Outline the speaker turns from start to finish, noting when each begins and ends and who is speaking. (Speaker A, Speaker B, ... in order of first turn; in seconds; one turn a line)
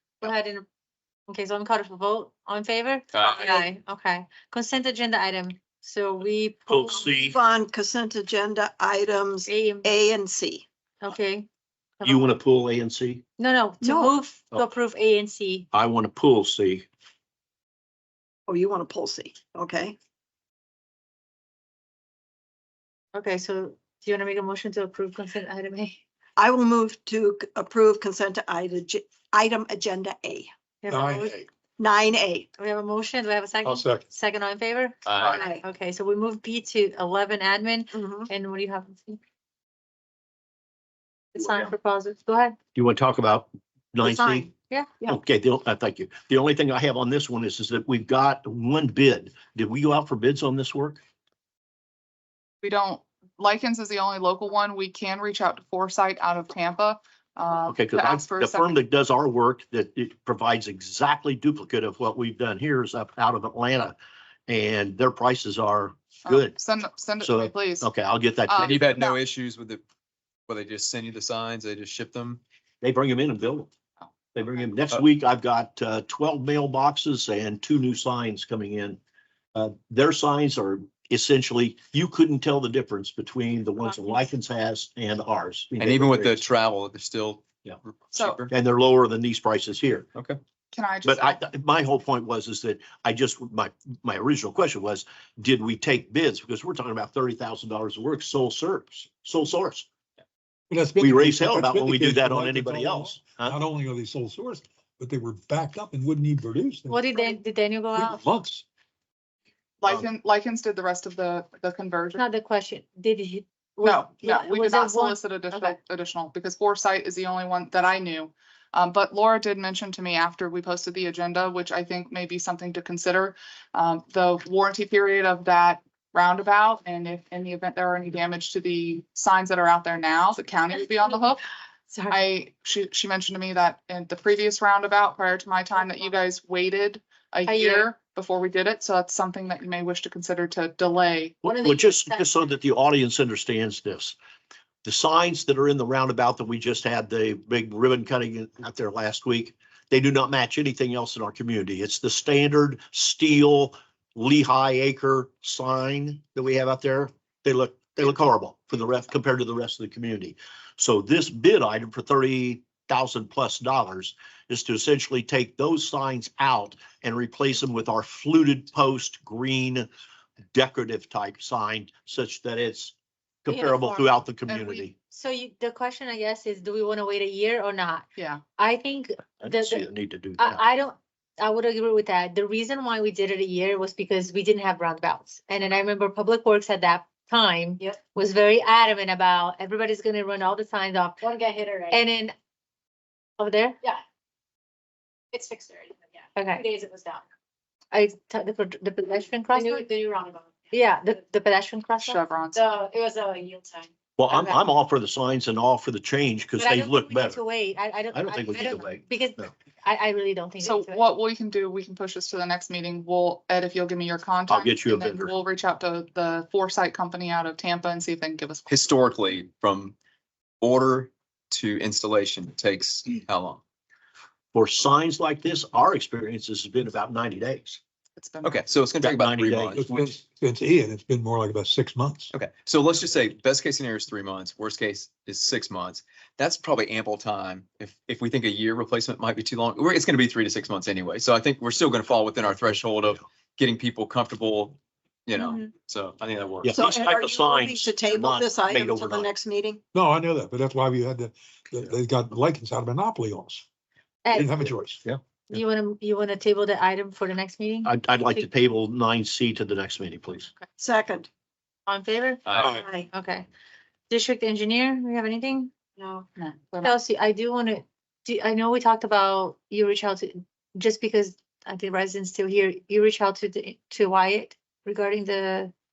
Speaker A: 0.2-0.7
Speaker A: 1.3-7.1
Speaker B: 6.7-7.4
Speaker C: 6.9-10.7
Speaker A: 9.5-9.9
Speaker A: 11.0-11.5
Speaker A: 12.0-12.3
Speaker B: 12.0-13.2
Speaker A: 13.4-15.7
Speaker C: 13.8-14.2
Speaker B: 15.7-16.9
Speaker C: 18.5-20.0
Speaker A: 23.1-26.0
Speaker C: 26.4-30.5
Speaker A: 30.8-31.4
Speaker D: 30.9-31.5
Speaker C: 31.8-32.5
Speaker A: 32.6-39.2
Speaker D: 33.6-34.0
Speaker C: 35.3-35.6
Speaker C: 37.9-38.3
Speaker A: 41.3-42.6
Speaker B: 42.8-44.5
Speaker A: 44.5-44.9
Speaker B: 45.1-51.0
Speaker E: 52.6-58.8
Speaker B: 57.7-64.0
Speaker B: 64.5-66.6
Speaker E: 66.3-67.9
Speaker B: 67.2-68.8
Speaker E: 68.5-69.2
Speaker F: 68.6-69.8
Speaker F: 70.5-72.4
Speaker B: 72.8-73.7
Speaker B: 74.3-79.0
Speaker B: 79.5-86.5
Speaker F: 85.8-88.5
Speaker E: 88.1-88.4
Speaker B: 88.5-90.1
Speaker E: 90.7-91.4
Speaker B: 91.0-99.9
Speaker D: 100.7-107.3
Speaker B: 101.0-103.6
Speaker A: 106.9-108.2
Speaker D: 108.0-108.6
Speaker E: 109.8-112.2
Speaker A: 112.1-115.8
Speaker E: 113.8-131.4
Speaker A: 131.9-132.3
Speaker E: 132.1-141.4
Speaker A: 137.5-137.9
Speaker B: 141.4-144.2
Speaker A: 141.4-142.3
Speaker B: 144.8-169.9
Speaker B: 170.5-174.9
Speaker A: 173.5-174.1
Speaker E: 174.5-174.9
Speaker A: 175.1-179.9
Speaker E: 178.2-178.4
Speaker B: 179.4-180.6
Speaker A: 180.4-191.2
Speaker G: 191.2-192.0
Speaker A: 191.9-192.3
Speaker A: 193.4-193.8
Speaker G: 195.3-197.2
Speaker A: 196.4-196.6
Speaker A: 197.9-199.8
Speaker G: 199.5-200.5
Speaker A: 200.7-202.2
Speaker E: 202.0-202.6
Speaker G: 202.6-204.6
Speaker B: 204.2-207.4
Speaker A: 206.7-211.0
Speaker B: 208.1-209.5
Speaker E: 210.6-218.8
Speaker B: 214.5-215.3
Speaker F: 218.7-219.9
Speaker F: 220.6-223.6
Speaker B: 224.5-227.8
Speaker E: 228.2-228.6
Speaker F: 228.4-229.8
Speaker B: 229.0-230.1
Speaker D: 229.8-232.3
Speaker F: 232.3-246.9
Speaker C: 245.4-245.6
Speaker B: 246.6-249.3
Speaker C: 246.7-249.8
Speaker D: 249.9-253.7
Speaker A: 254.2-254.6
Speaker D: 254.3-255.0
Speaker A: 255.5-257.9
Speaker B: 257.9-260.5
Speaker C: 260.8-261.3
Speaker A: 261.9-262.4
Speaker D: 262.6-262.9
Speaker C: 262.7-263.1
Speaker A: 263.1-263.5
Speaker A: 264.1-265.7
Speaker C: 266.0-266.2
Speaker E: 266.4-266.9
Speaker A: 266.8-275.7